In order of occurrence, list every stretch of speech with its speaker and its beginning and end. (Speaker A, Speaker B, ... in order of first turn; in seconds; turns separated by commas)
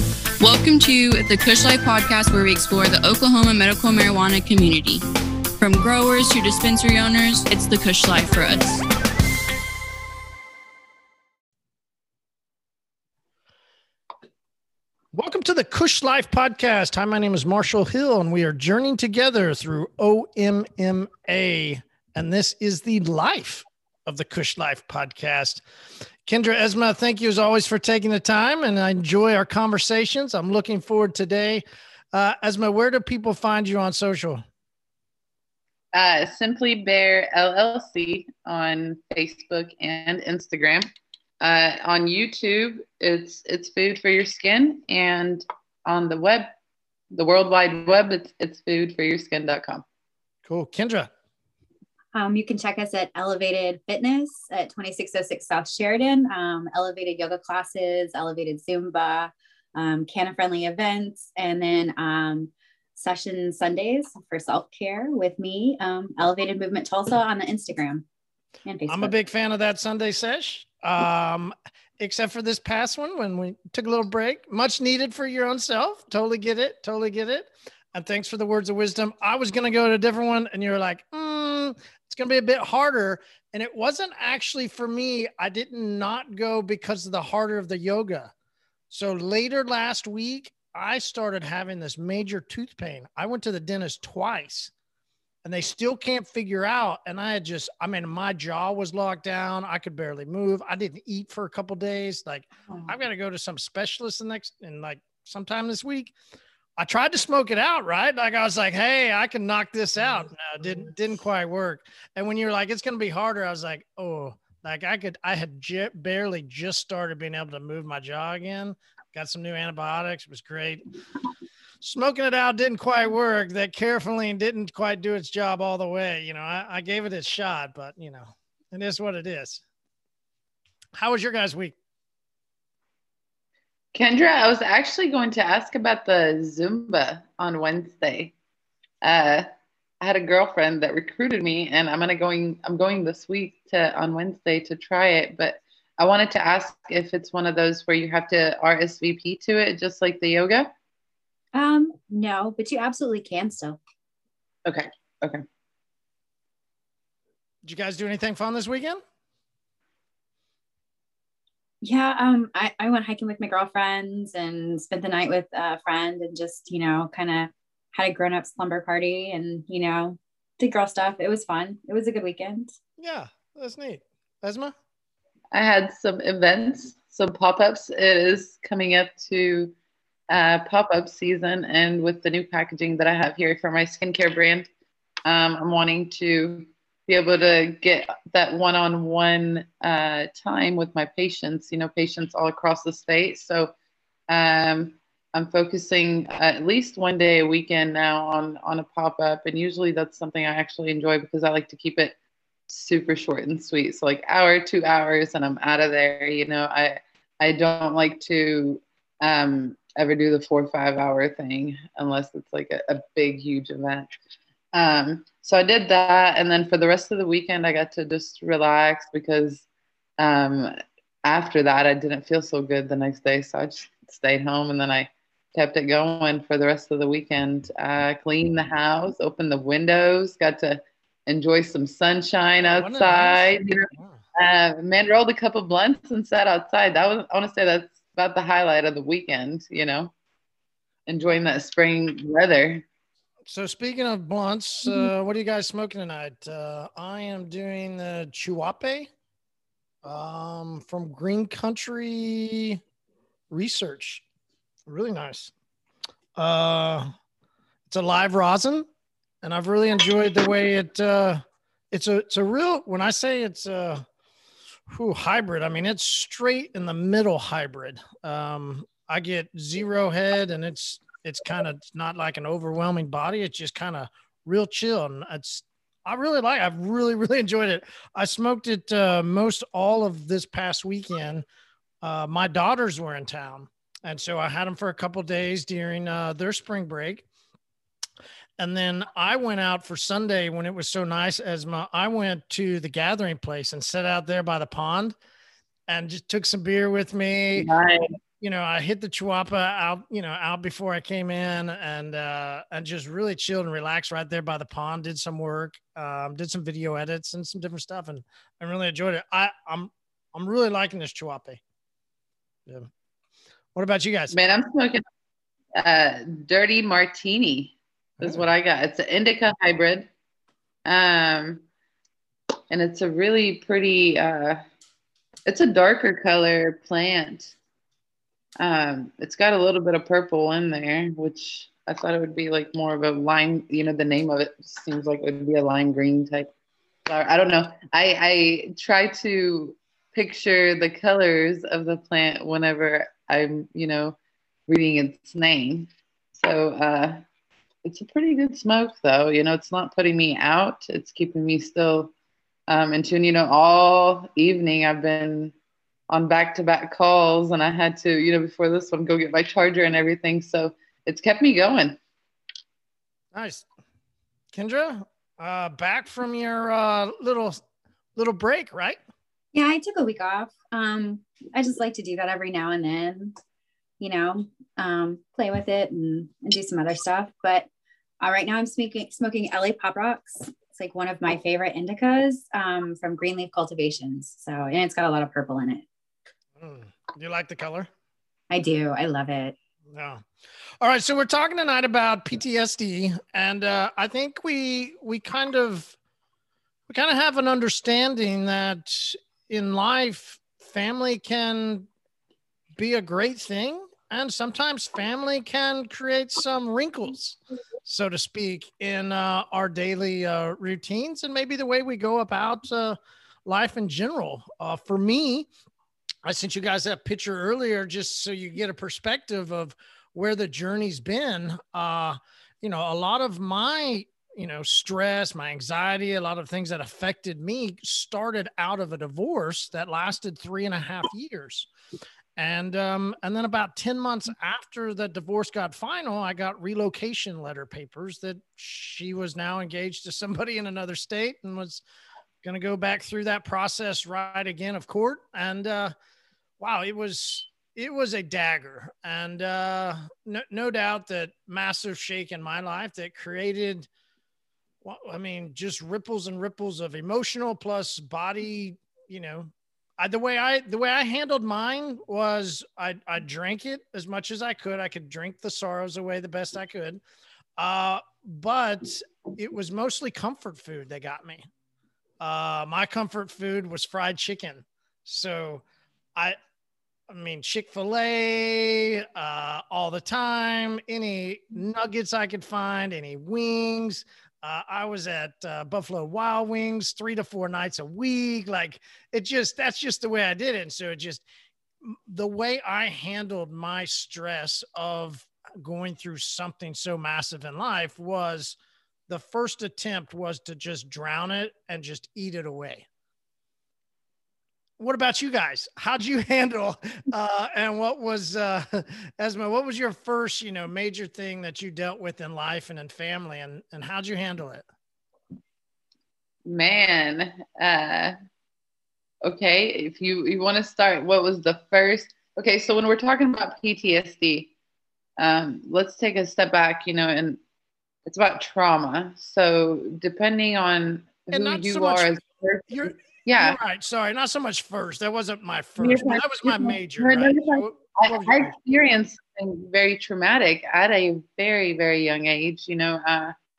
Speaker A: 0.4-5.0, Speaker A: 5.6-8.8, Speaker B: 15.1-25.6, Speaker B: 26.2-34.4, Speaker C: 35.9-40.9, Speaker C: 41.4-46.5, Speaker C: 47.1-49.8, Speaker B: 50.5-51.1, Speaker D: 52.1-68.0, Speaker D: 68.7-69.1, Speaker B: 68.9-88.3, Speaker B: 88.9-94.7, Speaker B: 95.4-106.1, Speaker B: 106.8-120.8, Speaker B: 121.8-129.6, Speaker B: 130.9-131.7, Speaker C: 133.9-138.3, Speaker C: 139.0-139.4, Speaker C: 140.0-150.7, Speaker D: 151.5-153.8, Speaker C: 154.7-155.4, Speaker B: 157.6-159.0, Speaker D: 161.8-172.7, Speaker B: 173.0-174.7, Speaker C: 175.5-179.7, Speaker C: 180.3-184.7, Speaker C: 185.2-193.7, Speaker C: 194.3-202.1, Speaker C: 202.7-214.1, Speaker C: 214.7-219.6, Speaker C: 220.2-220.7, Speaker C: 221.2-240.1, Speaker B: 232.6-234.2, Speaker C: 241.1-242.8, Speaker B: 243.5-249.1, Speaker B: 250.0-252.8, Speaker B: 253.5-254.2, Speaker B: 254.9-255.5, Speaker B: 256.4-257.1, Speaker B: 257.9-258.9, Speaker B: 259.4-264.0, Speaker B: 264.9-281.4, Speaker B: 282.0-287.2, Speaker B: 288.6-295.1, Speaker B: 295.9-297.7, Speaker C: 297.6-298.1, Speaker B: 298.4-311.6, Speaker B: 313.7-314.4, Speaker C: 314.3-315.0, Speaker C: 315.8-320.1, Speaker B: 318.2-318.4, Speaker C: 320.9-321.6, Speaker C: 322.7-324.6, Speaker C: 325.4-327.5, Speaker C: 328.6-336.5, Speaker C: 337.1-344.1, Speaker C: 344.7-347.2, Speaker C: 347.8-352.1, Speaker C: 352.7-355.5, Speaker C: 356.1-362.0, Speaker B: 363.3-363.6, Speaker B: 364.5-367.6, Speaker B: 368.1-369.0, Speaker D: 369.5-373.3, Speaker D: 374.0-377.7, Speaker D: 378.2-385.8, Speaker B: 386.6-387.9, Speaker D: 388.5-389.6, Speaker B: 389.9-390.2, Speaker B: 390.8-395.9, Speaker B: 396.9-401.9, Speaker B: 402.8-415.5, Speaker B: 416.2-431.7, Speaker B: 432.4-441.8, Speaker B: 442.4-445.9, Speaker B: 446.6-453.9, Speaker B: 454.8-467.0, Speaker B: 467.6-471.5, Speaker B: 472.2-475.6, Speaker B: 477.1-491.2, Speaker B: 491.8-498.6, Speaker B: 499.1-502.9, Speaker B: 504.8-514.6, Speaker C: 516.5-518.1, Speaker C: 519.2-524.5, Speaker C: 525.2-527.4, Speaker C: 528.0-533.6, Speaker B: 531.3-532.1, Speaker B: 532.7-538.5, Speaker C: 535.8-543.3